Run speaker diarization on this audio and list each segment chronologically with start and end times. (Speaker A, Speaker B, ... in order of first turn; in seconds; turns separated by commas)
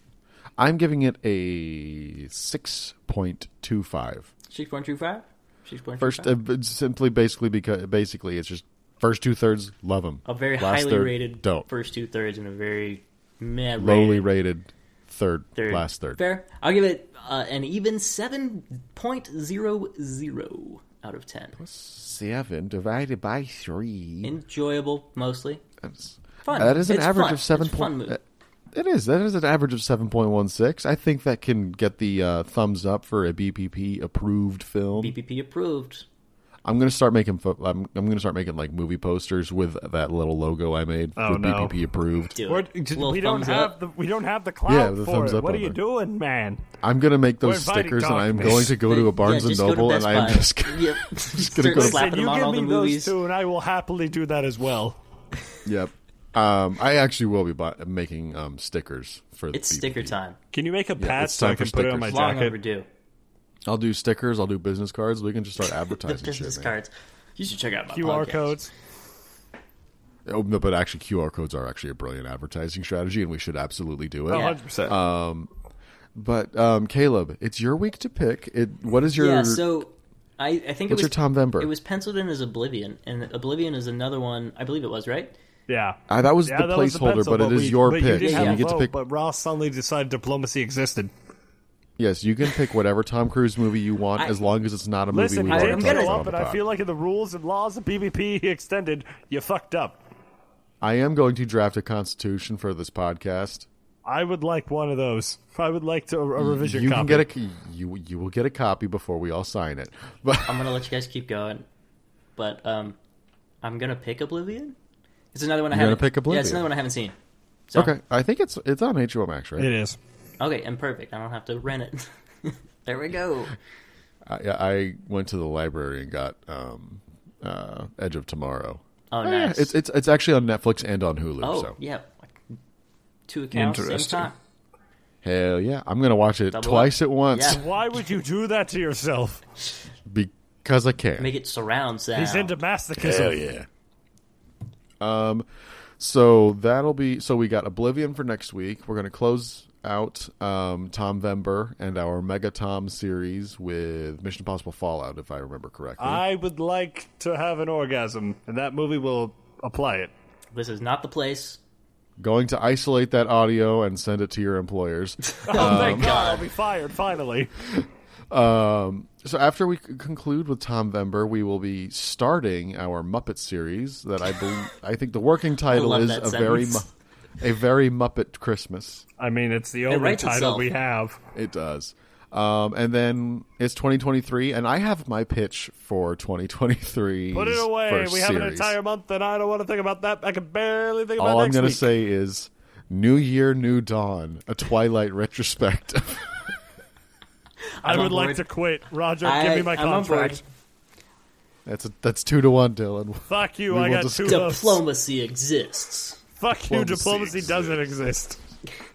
Speaker A: 0.6-4.3, Speaker B: 4.5-6.3, Speaker A: 6.0-11.7, Speaker B: 10.2-14.3, Speaker A: 13.8-16.2, Speaker B: 15.6-21.6, Speaker A: 21.6-24.3, Speaker B: 24.2-25.6, Speaker A: 25.8-28.2, Speaker B: 26.4-28.2, Speaker A: 28.7-35.1, Speaker B: 34.9-36.0, Speaker A: 36.6-42.4, Speaker C: 41.2-41.8, Speaker B: 42.3-43.8, Speaker C: 42.5-46.6, Speaker A: 44.6-45.8, Speaker A: 46.8-52.1, Speaker C: 47.4-48.8, Speaker B: 48.8-53.1, Speaker C: 51.7-55.0, Speaker A: 55.6-60.2, Speaker B: 59.5-60.4, Speaker C: 60.5-62.5, Speaker A: 61.0-62.2, Speaker B: 62.1-62.9, Speaker A: 63.7-66.7, Speaker B: 66.0-68.6, Speaker C: 67.9-68.7, Speaker A: 70.2-75.5, Speaker C: 74.3-75.0, Speaker B: 74.3-74.6, Speaker A: 76.1-79.6, Speaker B: 79.1-85.3, Speaker A: 80.9-81.7, Speaker C: 85.7-91.1, Speaker A: 86.1-88.9, Speaker B: 88.2-88.6, Speaker A: 92.0-96.6, Speaker C: 95.1-100.0, Speaker B: 95.5-96.2, Speaker A: 100.8-103.7, Speaker C: 104.0-107.3, Speaker A: 106.4-110.8, Speaker B: 110.5-111.7, Speaker B: 112.3-113.0, Speaker B: 113.6-114.8, Speaker B: 115.3-117.1, Speaker A: 115.7-116.7, Speaker A: 117.7-119.7, Speaker C: 119.6-120.0, Speaker B: 120.4-123.6, Speaker A: 124.2-131.8, Speaker B: 129.1-129.7, Speaker B: 131.4-132.4, Speaker B: 133.3-134.3, Speaker C: 133.5-134.3, Speaker A: 135.2-137.6, Speaker B: 136.5-137.7, Speaker C: 137.4-139.4, Speaker A: 140.1-141.3, Speaker B: 141.2-142.6, Speaker C: 142.1-143.5, Speaker A: 143.0-143.7, Speaker A: 145.0-145.5, Speaker A: 146.0-156.2, Speaker C: 156.0-160.1, Speaker B: 160.5-161.6, Speaker A: 162.2-166.2, Speaker B: 165.4-166.5, Speaker C: 165.4-167.5, Speaker A: 167.6-179.0, Speaker B: 175.7-176.8, Speaker C: 179.2-181.2, Speaker B: 179.9-180.7, Speaker A: 181.3-188.8, Speaker C: 187.3-191.9, Speaker A: 191.2-196.5, Speaker B: 197.8-198.4, Speaker C: 197.8-200.4, Speaker B: 199.2-200.4, Speaker A: 201.7-204.5, Speaker C: 203.3-204.8, Speaker B: 204.2-206.2, Speaker C: 206.4-208.4, Speaker A: 206.6-207.9